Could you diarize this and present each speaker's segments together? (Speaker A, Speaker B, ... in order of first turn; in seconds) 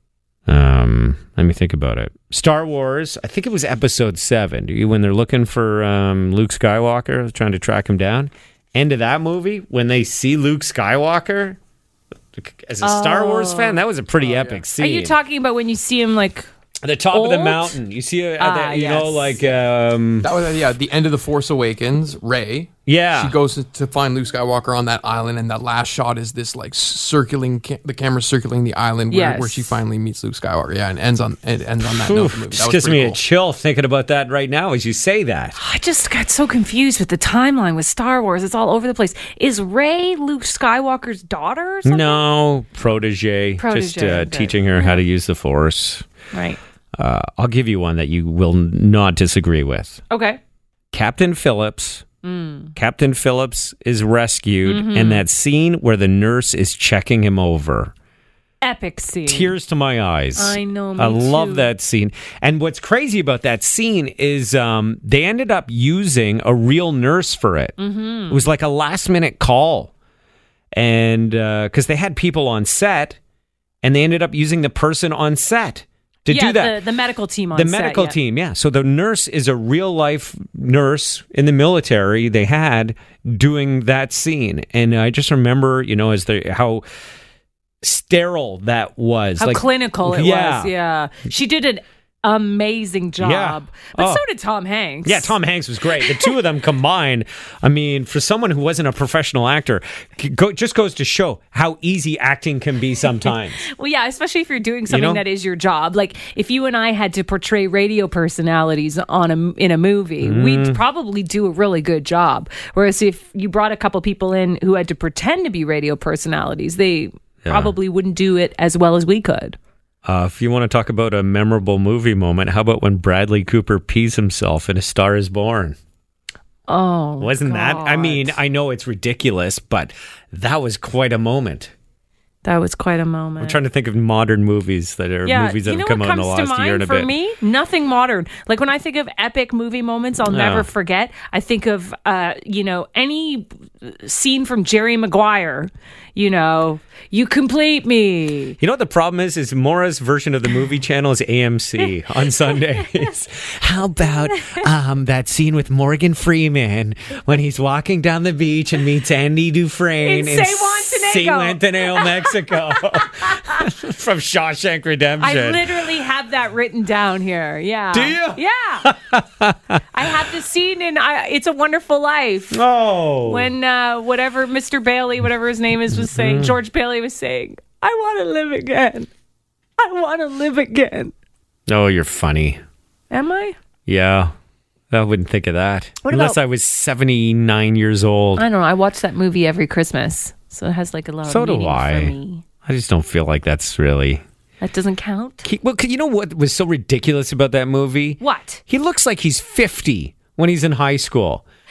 Speaker A: 0.5-11.6, 12.3-15.1, 16.8-20.3, 22.9-23.4, 31.8-35.5, 41.8-46.0, 47.0-50.0, 50.9-52.0, 52.7-57.9, 59.3-67.7, 68.3-69.9, 70.7-73.2, 73.8-76.8, 77.5-86.8, 87.8-90.7, 93.2-94.2, 95.0-103.6, 104.9-105.2, 110.2-110.8, 117.4-117.7, 120.0-125.8, 127.2-131.7, 133.4-137.1, 140.3-140.7, 148.6-165.9, 167.9-169.8, 172.5-173.5, 175.9-176.5, 181.7-182.6, 183.9-184.3, 184.9-188.4, 191.2-192.1, 192.6-194.2, 195.4-201.4
Speaker B: 12.8-13.8, 14.8-16.5, 17.1-17.8, 18.4-19.4, 29.1-29.8, 35.5-42.2, 43.6-45.0, 46.3-46.6, 50.1-50.4, 52.2-52.7, 54.6-55.2, 58.6-59.5, 60.4-61.7, 67.8-68.5, 76.3-78.2, 89.4-95.3, 96.0-96.3, 103.3-119.6, 126.7-128.4, 132.4-133.6, 135.2-148.6, 154.1-154.7, 160.0-163.7, 165.2-168.9, 169.9-172.6, 173.2-179.1, 179.8-181.1, 183.1-183.6, 186.0-186.4, 188.4-192.4, 194.6-195.5, 198.2-198.6
Speaker C: 14.3-14.6, 20.2-33.2